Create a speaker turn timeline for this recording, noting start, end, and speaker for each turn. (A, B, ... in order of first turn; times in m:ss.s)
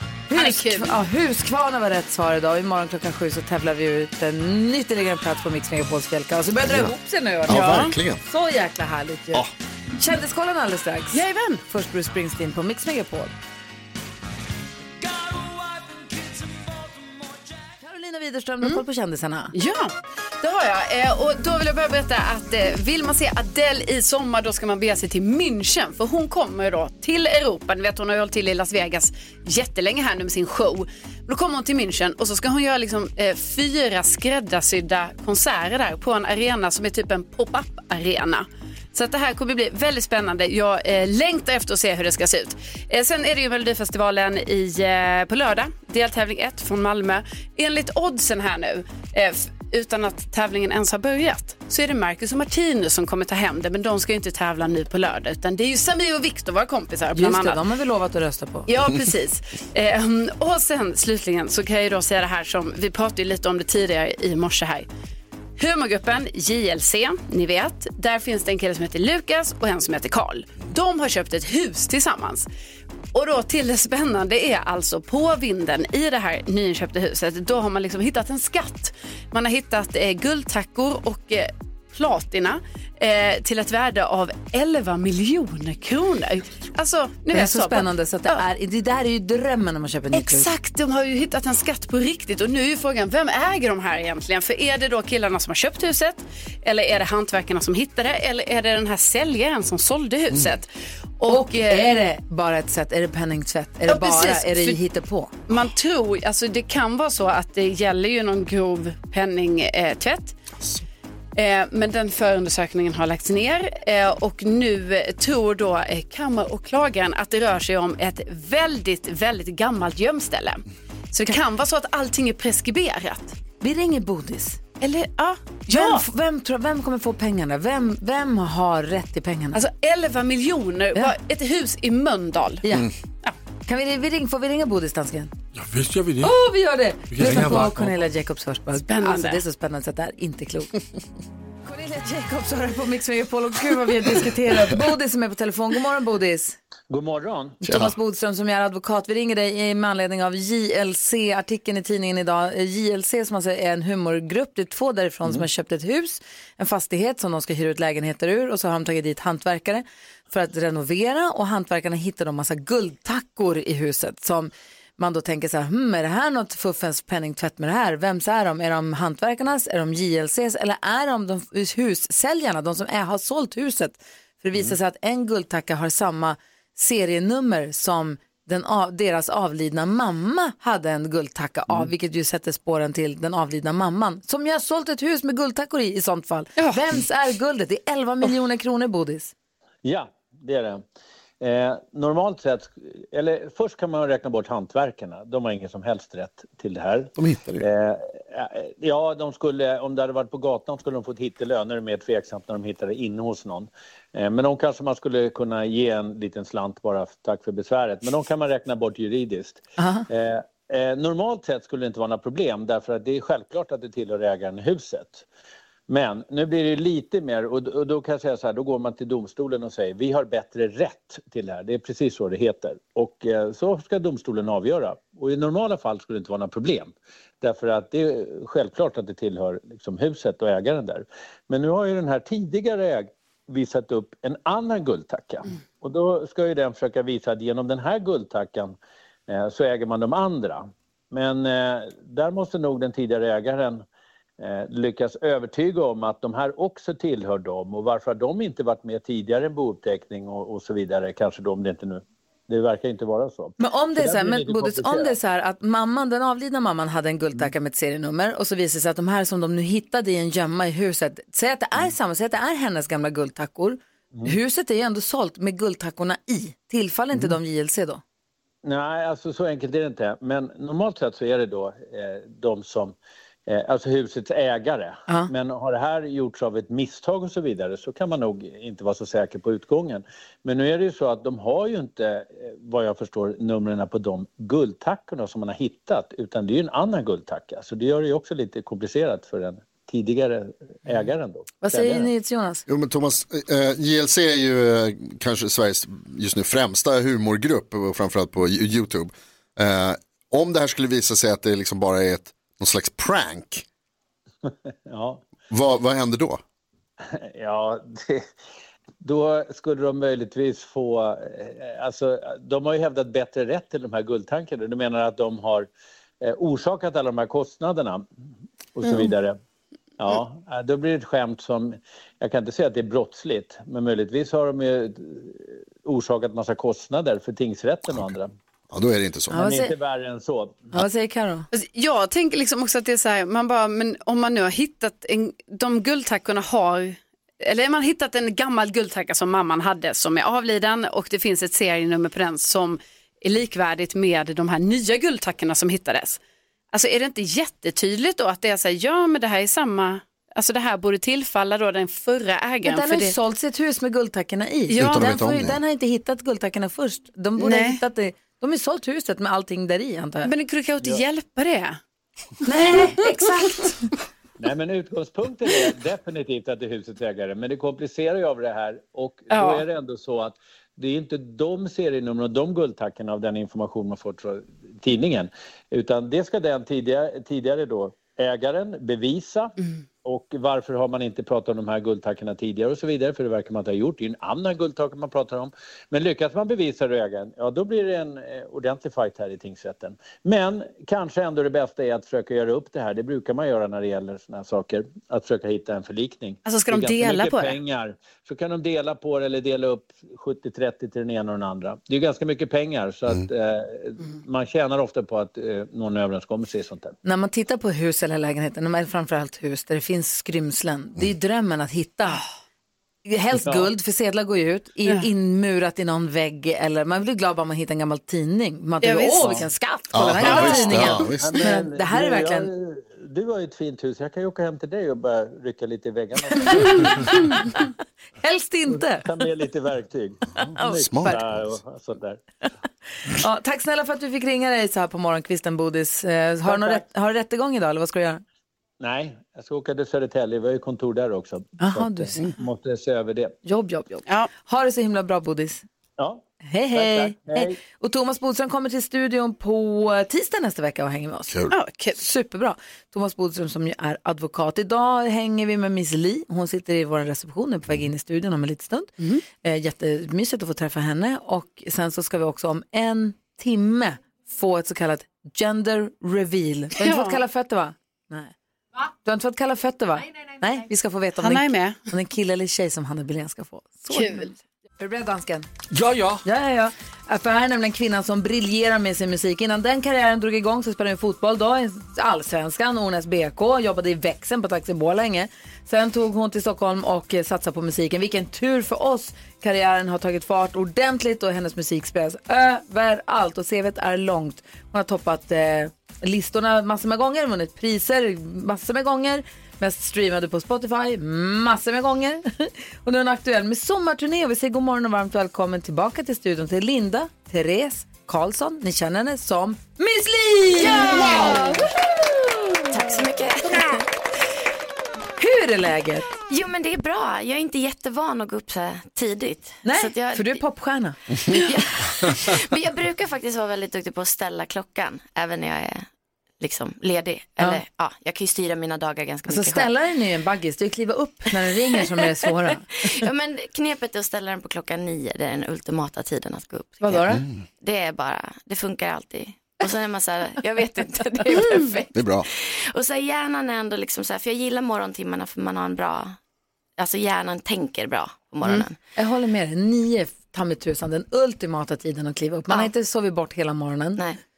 0:00.3-0:13.3 A
0:00.3-0:01.0 B
0:06.6-0:06.9 C
0:07.5-0:08.2 C
0:07.5-0:08.0 B
0:11.1-0:11.6 B
0:17.8-0:19.5 A
0:19.5-0:57.6 B
0:57.2-0:58.7 A
0:58.7-1:04.9 B
1:05.6-1:12.5 B
1:13.1-1:28.4 B
1:27.3-1:30.5 A
1:30.1-1:41.9 B
1:41.3-1:45.3 A
1:43.9-1:44.8 B
1:45.5-1:50.4 B
1:51.4-2:03.4 B
2:03.6-2:04.6 A
2:04.8-2:06.0 B
2:05.7-2:09.6 A
2:09.6-2:12.6 B
2:12.6-2:12.9 A
2:13.7-2:15.3 A
2:15.6-2:16.4 D
2:16.2-2:20.8 A
2:17.1-2:18.0 D
2:18.9-2:19.4 B
2:21.6-2:26.6 A
2:26.9-2:27.6 E
2:27.6-3:09.3 A
2:27.6-2:27.9 C
3:09.8-3:10.8 E
3:11.4-3:35.2 E
3:17.2-3:17.6 C
3:29.8-3:30.1 A
3:35.9-3:58.8 E
3:59.3-4:03.8 E
4:04.4-4:15.2 E
4:13.6-4:28.0 A
4:28.6-4:33.0 E
4:33.5-4:52.1 E
4:51.6-4:52.6 A
4:52.7-5:03.6 C
5:04.5-5:05.2 E
5:05.5-5:06.4 C
5:07.1-5:08.3 E
5:09.0-5:15.7 E
5:16.2-5:18.0 E
5:18.8-5:19.4 E
5:20.0-5:28.3 E
5:28.7-5:29.4 C
5:29.3-5:29.7 A
5:29.4-5:30.7 E
5:30.7-5:31.5 A
5:31.5-5:46.2 B
5:46.7-5:53.2 B
5:52.6-6:00.3 A
5:54.7-5:55.1 B
5:54.8-5:55.6 C
5:57.4-5:57.8 B
6:00.2-6:01.8 B
6:02.4-6:03.8 A
6:04.4-6:47.0 E
6:09.3-6:09.6 B
6:36.5-6:37.6 B
6:47.0-6:52.2 A
6:53.1-7:02.5 A
6:53.4-6:53.7 E
6:58.8-6:59.4 B
6:59.9-7:01.4 C
7:00.2-7:00.9 B
7:00.5-7:07.5 E
7:06.4-7:07.6 A
7:08.2-7:09.1 A
7:08.7-7:12.2 E
7:10.4-7:11.4 C
7:10.6-7:11.2 A
7:13.1-7:18.2 A
7:16.4-7:16.8 E
7:18.8-7:23.4 E
7:21.6-7:22.2 A
7:23.4-7:25.6 A
7:26.0-7:27.6 E
7:26.4-7:31.4 A
7:31.3-7:31.6 C
7:31.5-7:32.0 B
7:32.0-7:48.3 A
7:46.8-7:47.2 B
7:49.0-7:55.5 A
7:51.2-7:51.8 B
7:53.9-7:54.3 B
7:55.7-7:56.2 D
7:56.2-8:31.7 A
8:30.5-8:31.6 F
8:32.7-8:33.9 F
8:35.2-8:36.1 A
8:36.3-8:40.4 F
8:39.6-8:41.6 A
8:41.3-8:45.9 F
8:46.4-8:49.7 F
8:49.3-8:53.0 A
8:52.8-8:57.1 F
8:56.8-8:57.2 A
8:57.1-8:57.4 C
8:57.6-9:06.2 F
9:01.9-9:02.3 C
9:06.8-9:08.8 F
9:09.0-9:14.0 A